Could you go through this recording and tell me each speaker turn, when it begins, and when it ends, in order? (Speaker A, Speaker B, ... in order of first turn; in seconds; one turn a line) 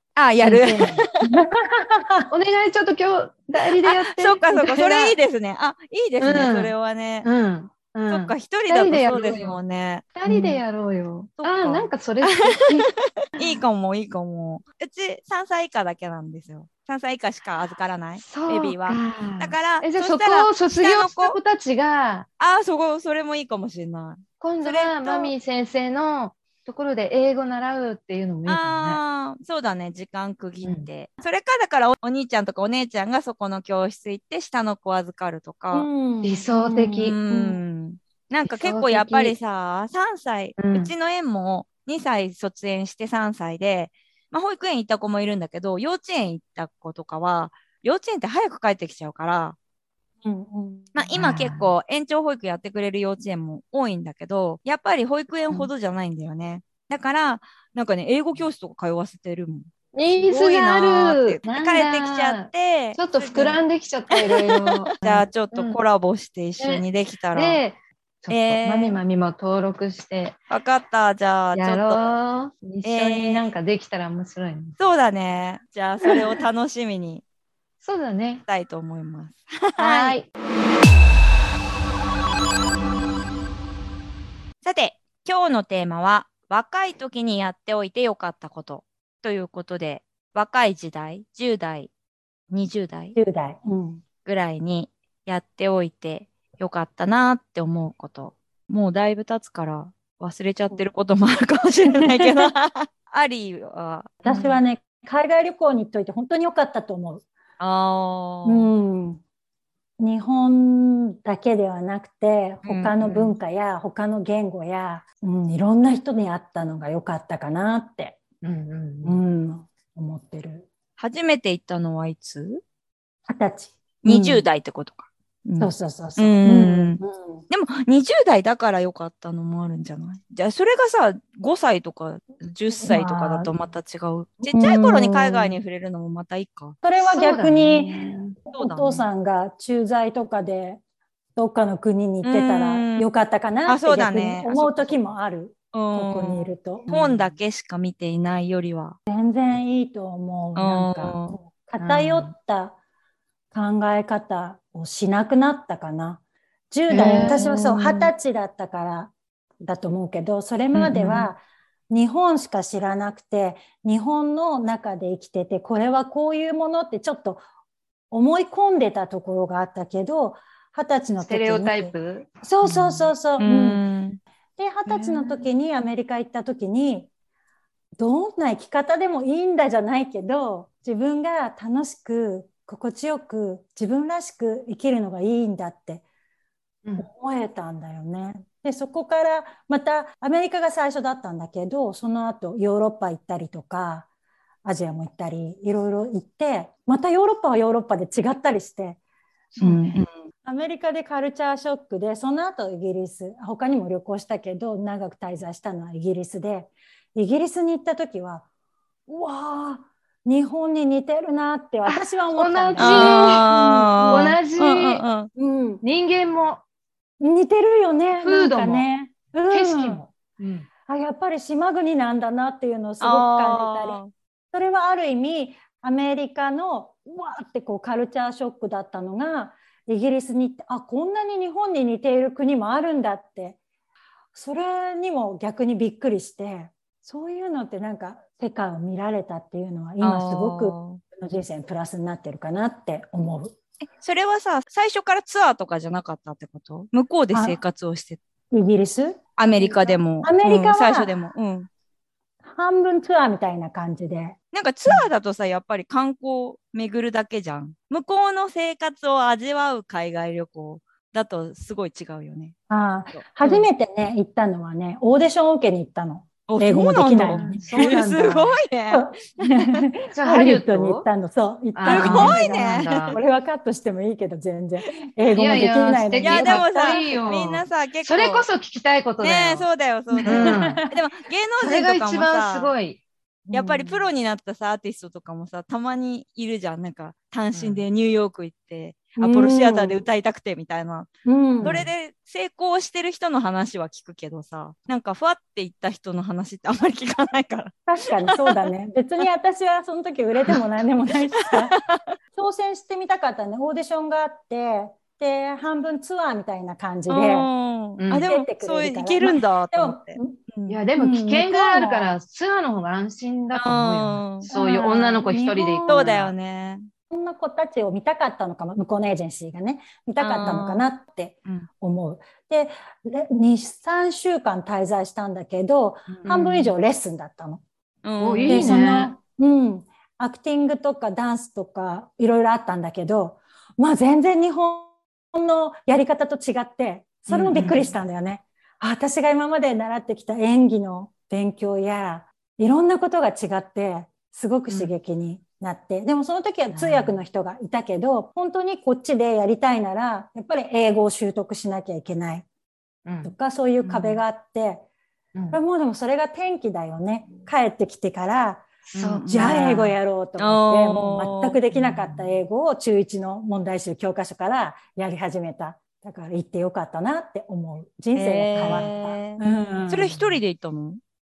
Speaker A: 0.1-1.3
Speaker B: 0.4-1.0
Speaker C: 1.2-2.3
Speaker B: 2.3-5.2
Speaker A: 3.8-7.3
Speaker B: 6.2-9.6
Speaker A: 8.1-10.1
Speaker B: 10.2-12.9
Speaker C: 10.3-10.5
Speaker A: 11.4-21.4
Speaker B: 18.1-22.3
Speaker A: 22.4-25.3
Speaker B: 24.4-29.0
Speaker A: 28.5-35.9
Speaker B: 30.6-30.9
Speaker C: 35.7-37.6
Speaker B: 36.2-37.2
Speaker A: 37.0-49.6
Speaker B: 38.4-39.4
Speaker B: 40.6-40.9
Speaker C: 50.2-50.9
Speaker A: 50.9-67.6
Speaker B: 51.1-51.7
Speaker B: 59.9-65.8
Speaker B: 66.6-70.4
Speaker A: 68.3-69.0
Speaker A: 70.5-72.0
Speaker B: 71.5-74.8
Speaker A: 72.8-73.4
Speaker A: 74.8-77.2
Speaker B: 77.8-78.4
Speaker A: 78.5-80.2
Speaker B: 79.8-80.3
Speaker A: 84.6-91.9
Speaker A: 92.5-93.2
Speaker C: 93.1-94.0
Speaker A: 94.2-104.6
Speaker C: 101.8-102.5
Speaker C: 104.2-107.2
Speaker A: 107.6-108.7
Speaker C: 108.5-109.2
Speaker C: 110.0-118.2
Speaker A: 112.6-113.1
Speaker B: 118.4-119.2
Speaker C: 119.0-120.7
Speaker A: 121.0-122.6
Speaker C: 123.3-124.4
Speaker A: 124.0-136.8
Speaker C: 125.6-127.4
Speaker C: 132.8-133.5
Speaker C: 134.5-135.6
Speaker C: 136.8-140.8
Speaker B: 137.0-138.4
Speaker A: 138.5-139.1
Speaker C: 141.3-147.2
Speaker A: 142.2-143.1
Speaker A: 143.7-145.1
Speaker A: 145.7-149.0
Speaker C: 149.1-152.8
Speaker A: 150.6-151.4
Speaker B: 151.8-152.3
Speaker C: 153.5-167.4
Speaker B: 156.9-158.1
Speaker B: 160.7-161.3
Speaker C: 168.1-173.8
Speaker B: 171.2-173.1
Speaker A: 173.4-174.2
Speaker C: 174.6-177.1
Speaker B: 174.9-175.4
Speaker C: 178.0-186.0
Speaker C: 187.0-194.1
Speaker C: 194.6-199.0
Speaker B: 199.5-200.0
Speaker A: 199.6-200.1
Speaker C: 200.4-208.5
Speaker C: 209.1-214.4
Speaker B: 211.8-213.5
Speaker A: 212.8-215.3
Speaker B: 214.0-215.0
Speaker C: 215.4-215.8
Speaker B: 215.8-216.6
Speaker C: 217.2-220.0
Speaker B: 218.2-218.9
Speaker B: 219.5-220.7
Speaker C: 220.9-224.0
Speaker A: 223.0-224.1
Speaker C: 224.5-233.6
Speaker C: 234.3-243.6
Speaker A: 240.0-241.0
Speaker A: 243.8-248.2
Speaker C: 247.3-247.6
Speaker C: 248.5-251.1
Speaker A: 249.4-251.7
Speaker C: 252.4-254.4
Speaker A: 254.5-262.6
Speaker C: 262.7-267.7
Speaker A: 263.1-263.7
Speaker A: 266.5-269.8
Speaker B: 267.2-268.6
Speaker C: 268.9-277.4
Speaker B: 270.1-271.1
Speaker B: 271.8-273.2
Speaker A: 271.9-273.2
Speaker B: 275.3-279.7
Speaker A: 276.2-278.5
Speaker A: 279.2-282.7
Speaker C: 280.1-281.0
Speaker B: 280.2-280.8
Speaker B: 281.6-283.0
Speaker C: 283.5-284.0
Speaker A: 283.5-291.1
Speaker B: 287.5-287.9
Speaker C: 289.2-290.0
Speaker C: 291.2-291.9
Speaker A: 291.6-298.7
Speaker B: 291.6-291.9
Speaker C: 297.9-301.8
Speaker A: 301.4-302.2
Speaker C: 302.3-307.5
Speaker A: 307.1-310.8
Speaker B: 308.0-308.3
Speaker C: 308.2-310.4
Speaker B: 310.7-316.3
Speaker C: 311.0-312.1
Speaker A: 313.5-314.5
Speaker C: 314.4-316.1
Speaker A: 315.9-316.9
Speaker C: 317.1-327.6
Speaker A: 320.2-320.9
Speaker A: 326.1-326.4
Speaker B: 326.2-326.7
Speaker A: 328.0-328.8
Speaker B: 328.2-329.1
Speaker C: 328.5-352.4
Speaker A: 337.3-337.8
Speaker B: 337.5-337.9
Speaker B: 344.7-345.0
Speaker B: 346.7-347.2
Speaker B: 353.0-354.2
Speaker C: 353.2-354.9
Speaker B: 355.4-355.6
Speaker C: 355.5-358.7
Speaker B: 358.9-359.9
Speaker A: 359.0-359.7
Speaker C: 359.3-370.2
Speaker A: 360.4-361.6
Speaker B: 361.7-362.4
Speaker A: 368.1-371.0
Speaker B: 368.6-368.9